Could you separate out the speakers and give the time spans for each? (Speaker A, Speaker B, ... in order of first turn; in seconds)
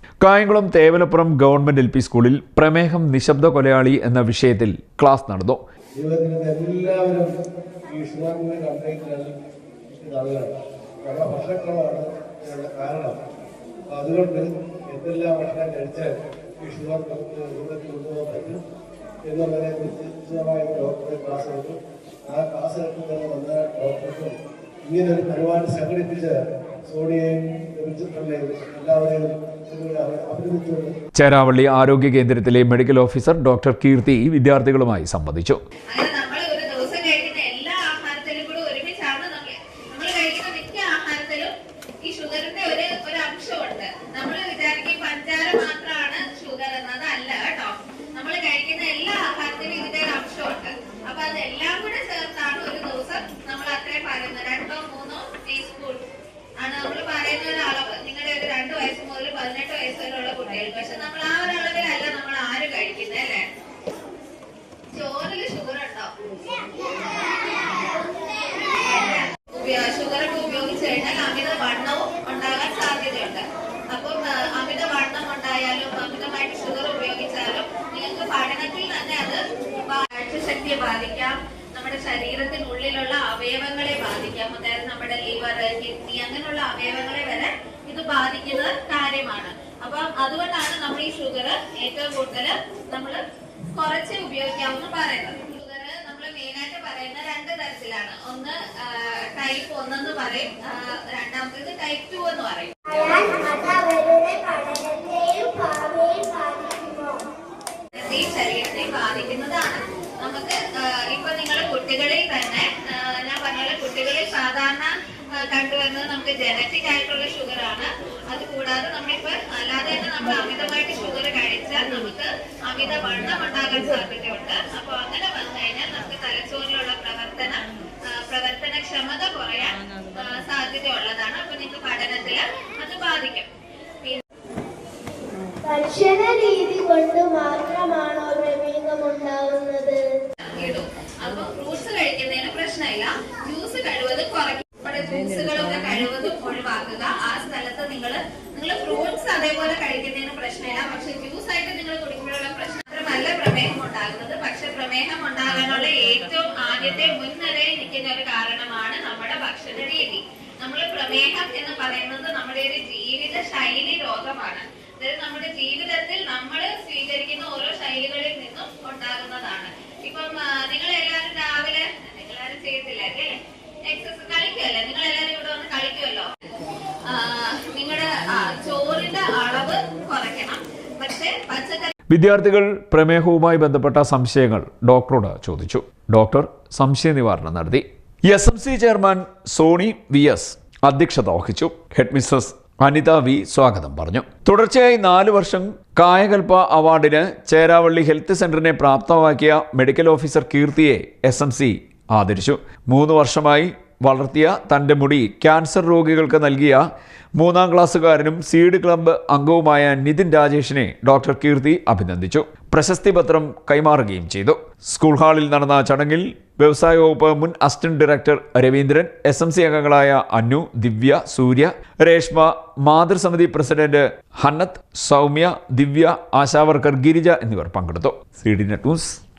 Speaker A: 0.2-5.6, 31.1-35.6, 182.1-206.8, 207.3-229.2
Speaker B: 6.0-7.3, 7.9-9.3, 9.9-10.5, 11.0-13.1, 13.9-18.6, 19.2-21.7, 22.3-24.3, 24.9-26.3, 26.9-30.9
Speaker C: 35.9-41.5, 42.0-56.0, 56.6-63.4, 64.9-66.1, 68.7-93.2, 93.7-102.7, 107.9-133.5, 140.4-173.3, 173.9-176.3, 177.1-181.9
Speaker D: 102.9-107.3, 135.6-140.0